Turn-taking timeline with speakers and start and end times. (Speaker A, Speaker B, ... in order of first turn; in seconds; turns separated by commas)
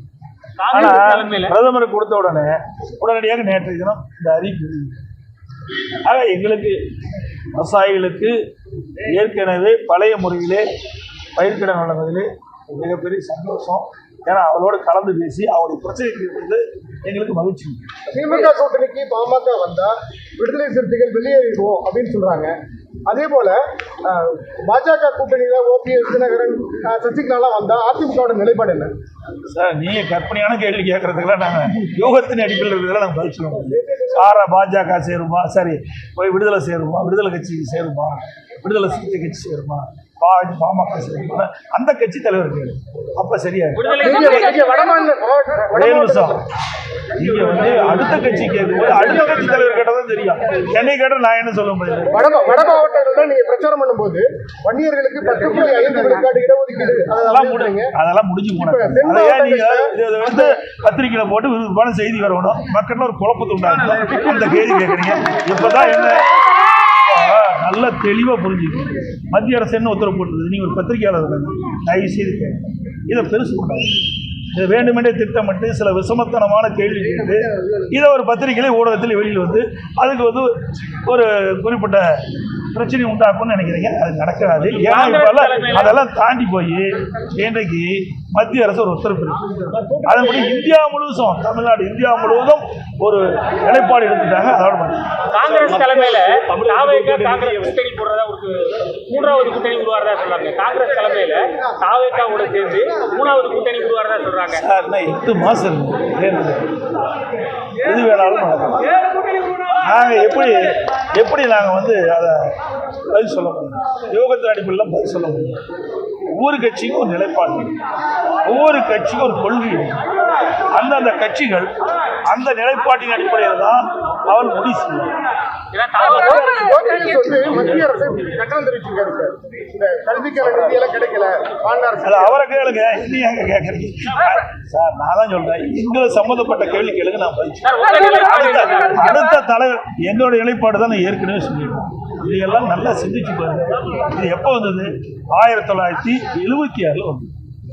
Speaker A: 0.6-1.6, Speaker B: 0.7-5.0, Speaker B: 6.0-6.8, Speaker B: 7.5-8.4, Speaker B: 9.0-10.7, Speaker B: 11.3-17.9, Speaker C: 18.1-28.9, Speaker B: 29.4-43.9, Speaker C: 33.9-34.2, Speaker A: 43.8-44.8, Speaker C: 43.9-46.4, Speaker B: 45.7-46.5, Speaker B: 47.1-52.3, Speaker C: 52.1-57.9, Speaker B: 57.2-97.8, Speaker C: 58.6-60.5, Speaker A: 84.8-86.0, Speaker A: 95.3-104.7, Speaker B: 104.5-106.8, Speaker B: 107.8-108.9, Speaker B: 109.8-115.6, Speaker B: 116.3-117.8, Speaker B: 118.5-120.1, Speaker B: 120.7-121.7, Speaker B: 122.3-125.2, Speaker A: 125.7-126.8, Speaker C: 126.0-132.4, Speaker B: 132.0-147.3, Speaker A: 137.6-139.2